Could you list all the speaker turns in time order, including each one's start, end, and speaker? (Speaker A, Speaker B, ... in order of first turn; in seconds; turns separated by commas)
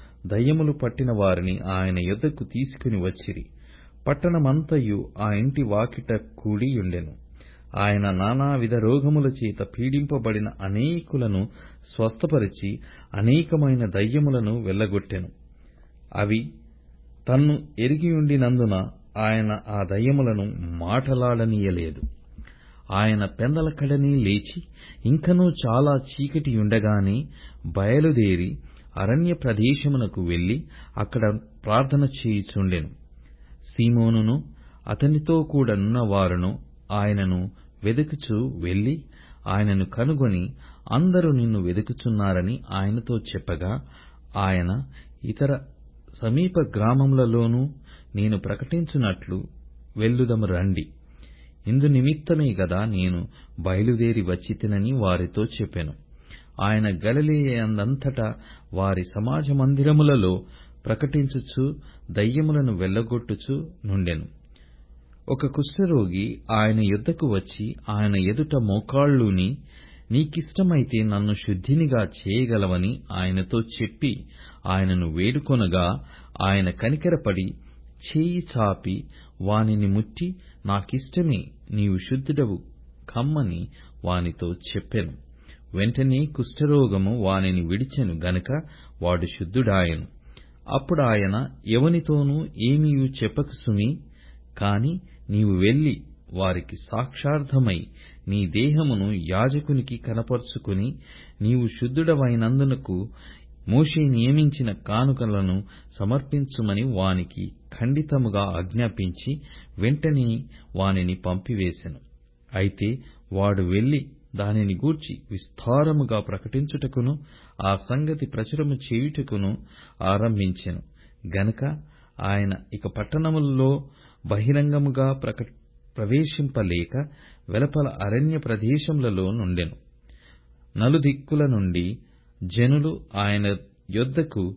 Speaker A: 0.3-3.5, Speaker A: 4.1-7.2, Speaker A: 7.8-15.3, Speaker A: 17.3-22.0, Speaker A: 23.0-27.2, Speaker A: 27.8-32.9, Speaker A: 33.7-34.4, Speaker A: 34.9-39.0, Speaker A: 39.5-43.7, Speaker A: 44.4-44.8, Speaker A: 45.3-45.6, Speaker A: 46.2-47.6, Speaker A: 48.2-49.4, Speaker A: 50.0-50.9, Speaker A: 51.7-56.0, Speaker A: 56.6-58.2, Speaker A: 58.8-60.4, Speaker A: 60.9-61.7, Speaker A: 62.2-64.3, Speaker A: 65.3-69.5, Speaker A: 70.1-74.1, Speaker A: 74.7-75.9, Speaker A: 76.4-77.5, Speaker A: 78.1-82.6, Speaker A: 83.1-85.2, Speaker A: 85.8-90.1, Speaker A: 90.7-93.9, Speaker A: 94.6-100.9, Speaker A: 101.4-103.0, Speaker A: 103.7-112.0, Speaker A: 112.6-117.2, Speaker A: 117.7-119.5, Speaker A: 120.1-120.8, Speaker A: 121.3-121.7, Speaker A: 122.3-123.7, Speaker A: 124.3-127.0, Speaker A: 127.5-129.8, Speaker A: 130.8-131.9, Speaker A: 132.5-134.4